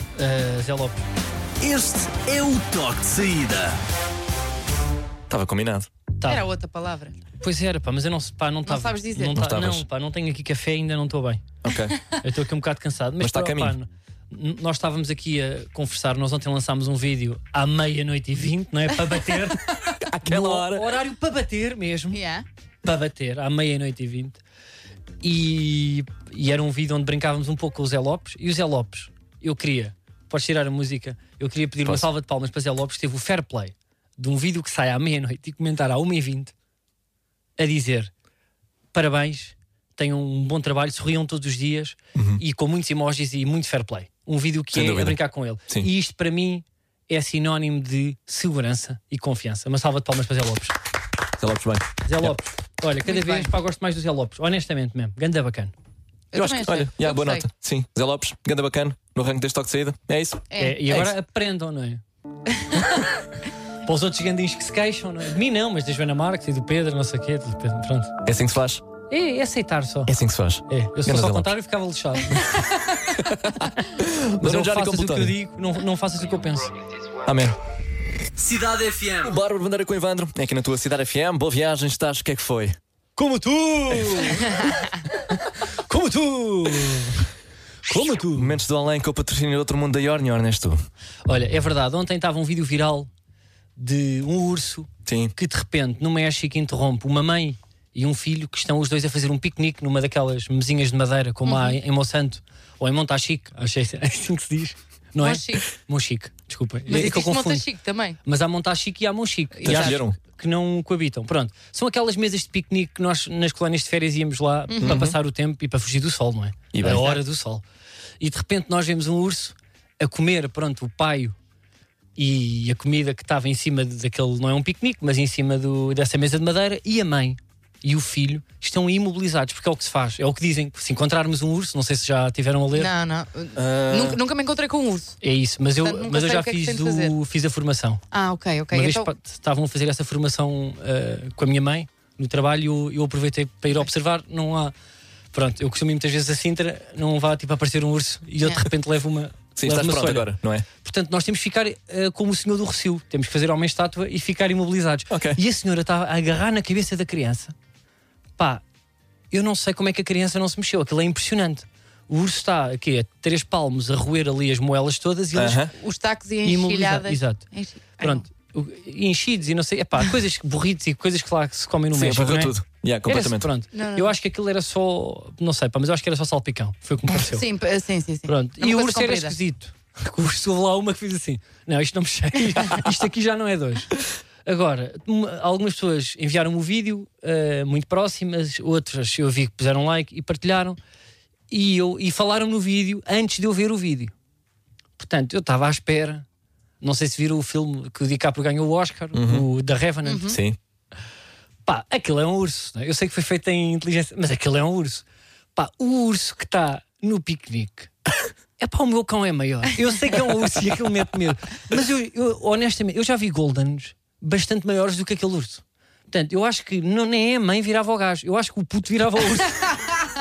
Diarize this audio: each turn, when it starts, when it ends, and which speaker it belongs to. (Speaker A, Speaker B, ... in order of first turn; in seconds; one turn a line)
Speaker A: 0.2-1.0
Speaker B: 1.6-3.5
Speaker C: 2.5-3.7
Speaker B: 5.3-5.9
Speaker A: 6.2-6.5
Speaker D: 6.2-7.2
Speaker A: 7.4-11.4
Speaker D: 8.7-9.3
Speaker B: 9.2-9.9
Speaker B: 11.6-12.0
Speaker A: 12.2-22.2
Speaker B: 13.2-13.8
Speaker B: 20.0-20.9
Speaker D: 22.1-22.4
Speaker A: 22.8-24.4
Speaker A: 25.2-36.5
Speaker A: 37.6-38.1
Speaker A: 38.9-50.8
Speaker B: 42.1-42.4
Speaker B: 44.7-45.9
Speaker B: 51.4-52.4
Speaker A: 52.0-55.7
Speaker D: 53.0-53.5
Speaker D: 56.3-57.5
Speaker B: 56.3-61.1
Speaker D: 60.5-60.8
Speaker A: 60.6-62.0
Speaker A: 63.9-68.2
Speaker B: 68.2-68.8
Speaker A: 69.1-70.1
Speaker B: 70.1-71.5
Speaker A: 70.7-72.6
Speaker B: 73.1-75.4
Speaker A: 74.4-76.7
Speaker B: 77.2-77.6
Speaker C: 78.4-79.3
Speaker B: 79.2-82.8
Speaker A: 83.2-87.3
Speaker B: 83.9-84.2
Speaker A: 87.9-88.6
Speaker B: 88.3-90.8
Speaker A: 91.3-93.1
Speaker A: 93.8-107.6
Speaker B: 95.1-95.3
Speaker D: 101.5-101.8
Speaker D: 105.2-105.7
Speaker D: 106.9-108.2
Speaker A: 108.3-117.6
Speaker D: 109.6-110.0
Speaker B: 109.7-110.2
Speaker D: 114.7-115.1
Speaker B: 114.8-115.2
Speaker B: 116.7-117.1
Speaker D: 116.8-117.2
Speaker A: 118.2-121.4
Speaker A: 122.2-132.9
Speaker D: 132.7-135.2
Speaker B: 133.6-134.2
Speaker A: 135.2-138.0
Speaker D: 135.8-137.1
Speaker D: 138.1-139.1
Speaker A: 138.7-144.7
Speaker A: 145.3-157.6
Speaker B: 149.6-150.7
Speaker B: 155.1-155.4
Speaker A: 158.4-158.6
Speaker A: 159.3-165.7
Speaker B: 165.3-165.7
Speaker D: 165.7-168.2
Speaker A: 166.4-167.4
Speaker A: 168.0-172.6
Speaker B: 171.9-173.5
Speaker A: 173.1-177.5
Speaker D: 173.7-174.2
Speaker D: 177.2-179.4
Speaker A: 178.3-190.8
Speaker A: 191.5-194.1
Speaker A: 195.0-196.3
Speaker A: 196.8-200.4
Speaker B: 199.1-199.4
Speaker D: 200.1-200.4
Speaker B: 200.3-200.6
Speaker A: 201.7-205.0
Speaker A: 205.6-207.9
Speaker A: 208.6-219.8